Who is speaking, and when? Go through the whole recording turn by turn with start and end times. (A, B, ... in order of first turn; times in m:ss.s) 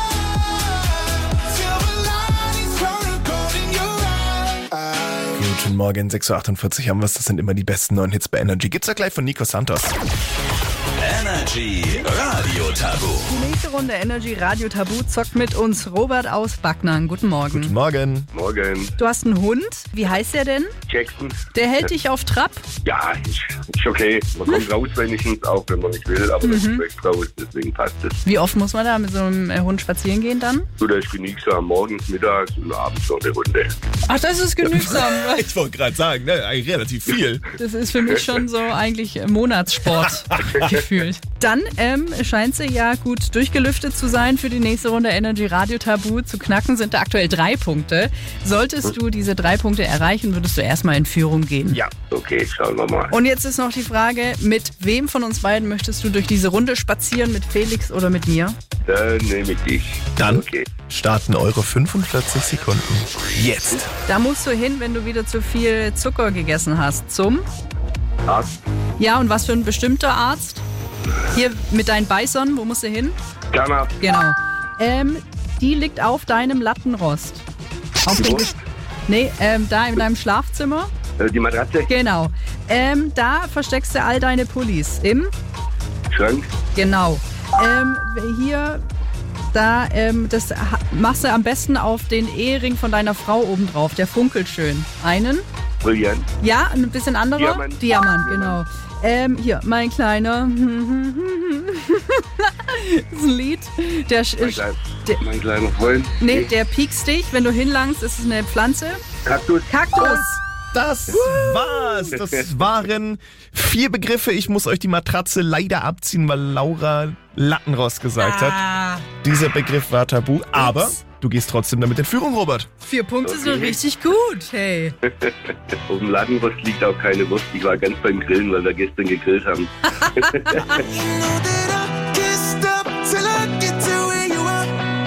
0:00.7-0:05.3 A
0:05.4-0:10.0 B
0:11.0-0:13.2 C
0:13.2-0:17.7 D
0:17.5-0:18.3 B
0:18.3-0:19.0 E
0:19.0-0:20.7 D
0:20.9-0:21.4 E
0:21.5-0:22.6 D
0:22.8-0:28.2 E
0:26.4-0:26.8 D
0:28.2-0:30.7 D
0:30.8-0:33.8 E
0:34.1-0:35.5 D
0:34.7-0:37.5 B
0:37.6-0:51.8 D
0:52.1-0:53.1 E
0:53.1-0:58.6 D
0:58.9-1:00.7 E
1:00.2-1:03.9 B
1:04.0-1:07.4 D
1:08.3-1:08.6 E
1:09.0-1:10.6 D
1:11.3-1:13.2 D
1:13.5-1:14.0 E
1:14.0-1:17.4 D
1:18.0-1:18.5 D
1:18.1-1:18.6 E
1:19.1-1:20.9 D
1:21.2-1:21.9 E
1:21.9-1:25.3 D
1:26.1-1:26.5 E
1:26.8-1:28.8 D
1:29.5-1:35.4 D
1:35.8-1:36.3 E
1:36.4-1:45.2 D
1:37.4-1:38.6 E
1:44.4-1:46.5 E
1:46.2-1:49.0 D
1:49.2-1:49.7 E
1:49.7-1:50.4 D
1:50.0-1:58.6 B
1:51.2-1:51.9 D
1:52.1-1:52.5 E
1:58.2-1:59.1 D
1:59.2-2:02.7 B
2:00.6-2:00.9 D
2:02.8-2:04.9 D
2:03.2-2:03.8 E
2:05.1-2:10.9 E
2:10.0-2:10.8 D
2:10.8-2:14.8 A